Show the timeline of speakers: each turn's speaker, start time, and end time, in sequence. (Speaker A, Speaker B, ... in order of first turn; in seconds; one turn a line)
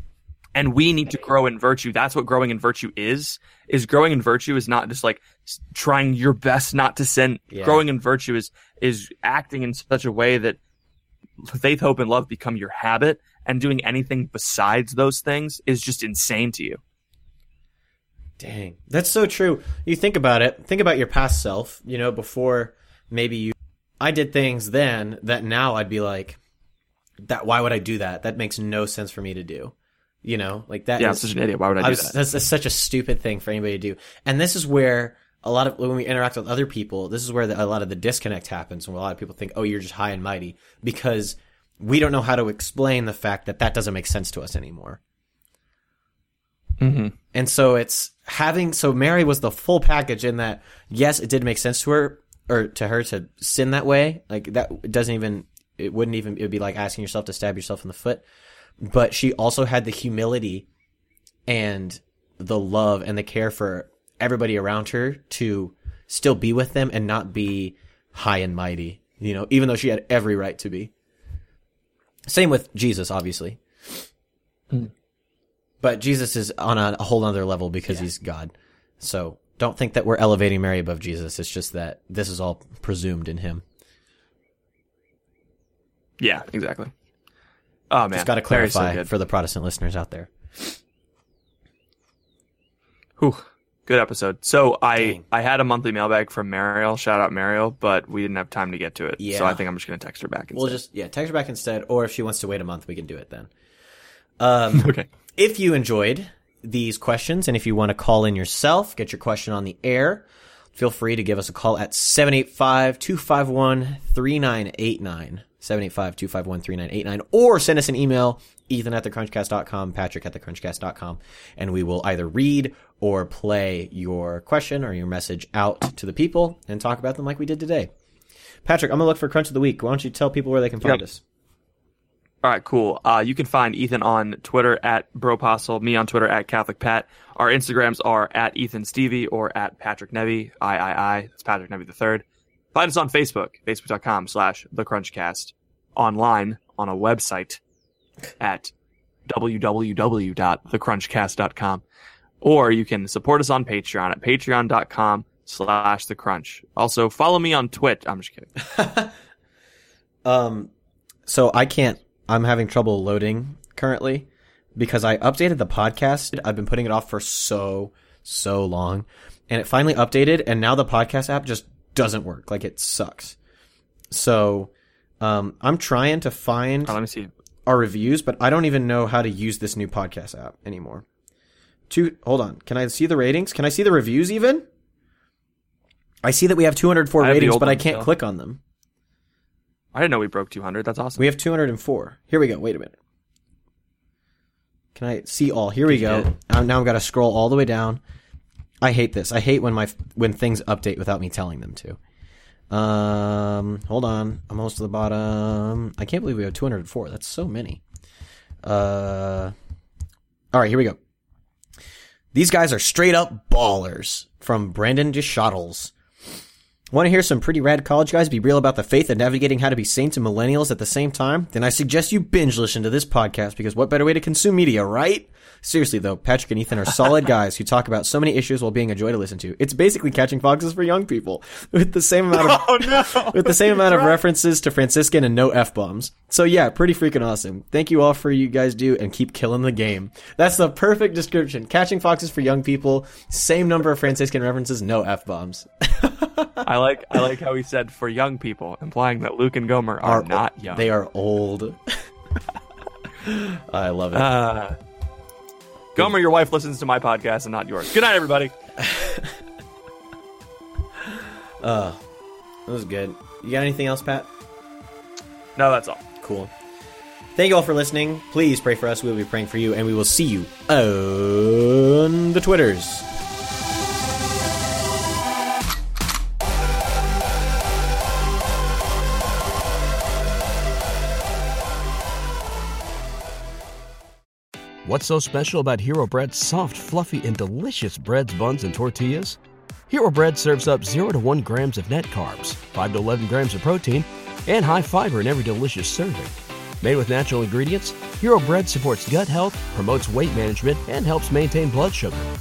Speaker A: 0.6-10.6
Speaker B: 7.5-7.8
Speaker A: 11.4-16.8
Speaker B: 18.4-26.4
Speaker B: 27.2-31.3
Speaker A: 31.0-32.2
Speaker B: 31.8-45.0
Speaker A: 46.8-47.1
Speaker B: 47.3-58.2
Speaker B: 58.8-60.7
Speaker B: 61.5-70.9
Speaker B: 72.3-74.0
Speaker B: 75.8-83.6
Speaker A: 86.2-86.9
Speaker A: 87.9-89.1
Speaker B: 88.1-90.7
Speaker A: 93.2-100.8
Speaker B: 95.0-95.2
Speaker B: 99.2-99.6
Speaker B: 100.5-103.5
Speaker B: 104.4-127.9
Speaker A: 104.8-105.1
Speaker B: 128.7-131.2
Speaker A: 132.4-147.6
Speaker A: 148.4-148.7
Speaker A: 149.3-151.8
Speaker A: 152.4-158.5
Speaker B: 158.6-159.2
Speaker B: 160.2-160.7
Speaker B: 161.3-173.4
Speaker B: 174.1-177.0
Speaker A: 176.9-177.3
Speaker B: 177.7-181.1
Speaker B: 181.9-184.7
Speaker B: 186.2-188.6
Speaker A: 187.2-188.1
Speaker A: 189.9-191.2
Speaker B: 191.2-192.9
Speaker B: 194.9-198.0
Speaker A: 195.9-196.3
Speaker B: 198.8-202.0
Speaker B: 202.7-207.8
Speaker B: 208.6-209.6
Speaker B: 210.5-211.0
Speaker B: 212.3-215.9
Speaker B: 216.9-246.7
Speaker A: 232.4-234.2
Speaker A: 246.6-250.9
Speaker B: 250.0-252.1
Speaker B: 253.2-254.3
Speaker A: 254.1-254.8
Speaker A: 255.9-258.6
Speaker B: 258.8-259.4
Speaker B: 261.0-262.0
Speaker B: 262.7-264.3
Speaker A: 265.6-266.0
Speaker B: 266.2-266.5
Speaker B: 267.4-273.1
Speaker C: 284.9-289.4
Speaker C: 289.9-302.3